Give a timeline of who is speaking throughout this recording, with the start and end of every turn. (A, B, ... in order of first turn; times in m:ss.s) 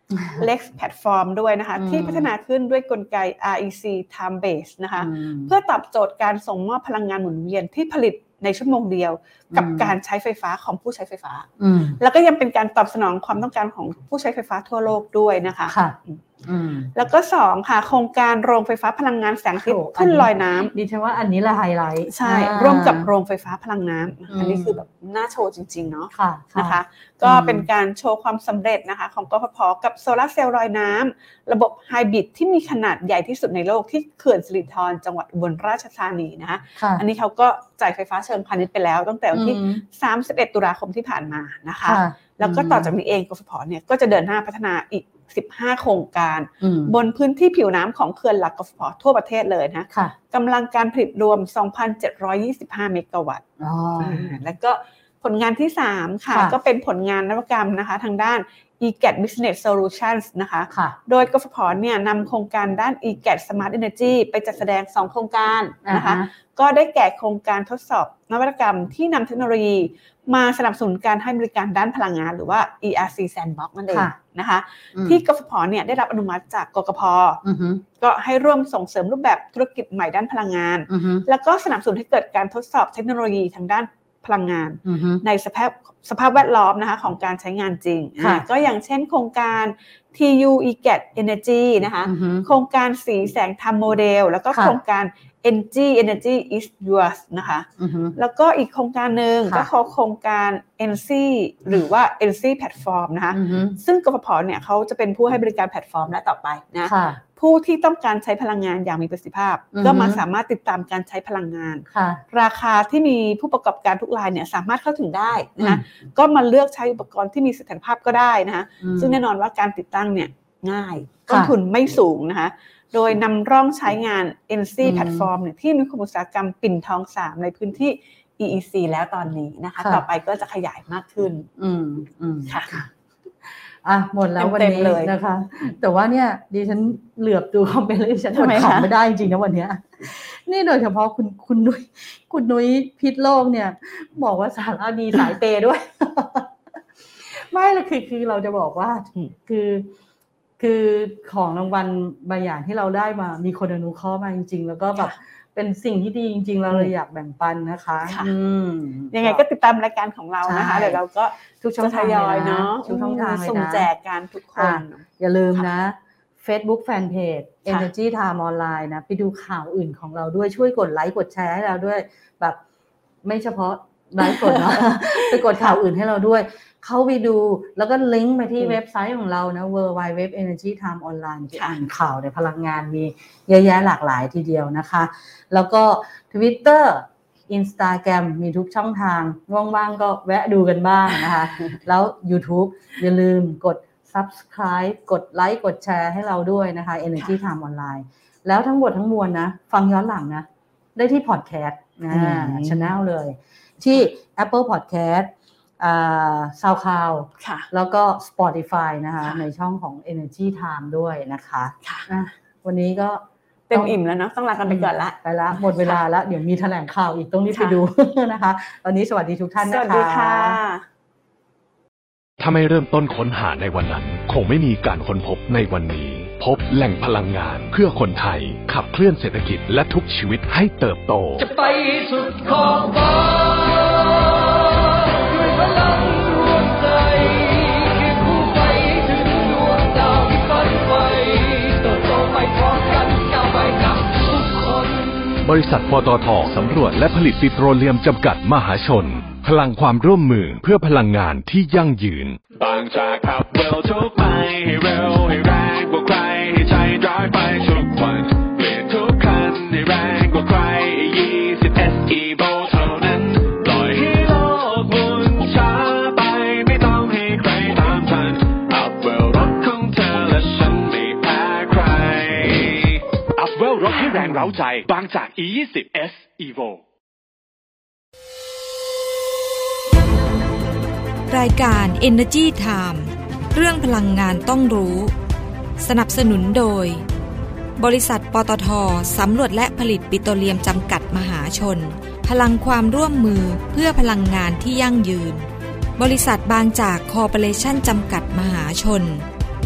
0:00.1-0:00.5 A
0:00.4-0:16.2 B
0:01.8-0:02.3 A
0:05.0-0:05.5 A
0:09.5-0:10.0 A
0:11.6-0:12.0 A
0:15.7-0:16.9 A
0:16.9-0:20.7 B
0:19.6-0:23.1 A
0:22.1-0:53.4 B
0:24.3-0:24.8 A
0:26.1-0:27.7 A
0:36.8-0:37.0 A
0:39.3-0:39.8 A
0:41.8-0:42.9 A
0:46.6-0:46.9 A
0:53.6-0:54.4 A
0:54.0-1:17.4 B
0:56.3-0:56.6 A
1:00.7-1:01.0 A
1:05.8-1:06.3 A
1:13.9-1:14.2 A
1:14.9-1:15.2 A
1:17.4-1:17.8 A
1:18.0-2:11.5 B
1:20.9-1:21.3 A
1:24.8-1:25.2 A
1:28.2-1:28.4 A
1:32.0-1:32.5 A
1:34.5-1:34.8 A
1:37.8-1:38.2 A
1:43.3-1:43.8 A
1:46.9-1:47.2 A
1:49.7-1:50.2 A
1:51.9-1:52.2 A
1:58.8-1:59.2 A
2:01.3-2:01.5 A
2:04.8-2:05.3 A
2:11.6-2:12.9 A
2:12.5-2:12.8 B
2:13.4-2:26.5 A
2:14.4-2:15.1 B
2:18.3-2:18.9 B
2:27.0-2:29.9 A
2:30.6-2:39.4 A
2:38.0-2:38.3 B
2:39.1-2:45.7 B
2:40.4-2:41.0 A
2:41.6-2:43.9 A
2:44.6-2:52.6 A
2:53.2-3:33.2 A
2:54.2-2:55.8 B
3:01.5-3:01.8 B
3:11.1-3:11.8 B
3:22.1-3:22.9 B
3:27.4-3:27.7 B
3:33.7-3:35.2 B
3:34.7-3:40.6 A
3:37.5-3:37.8 B
3:39.6-3:40.8 B
3:42.4-3:51.4 C
3:51.4-4:05.4 D
4:05.4-4:12.4 C
4:12.5-4:36.8 E
4:41.3-4:45.1 F
4:45.8-4:47.0 F
4:47.8-4:55.5 F
4:56.0-4:59.2 F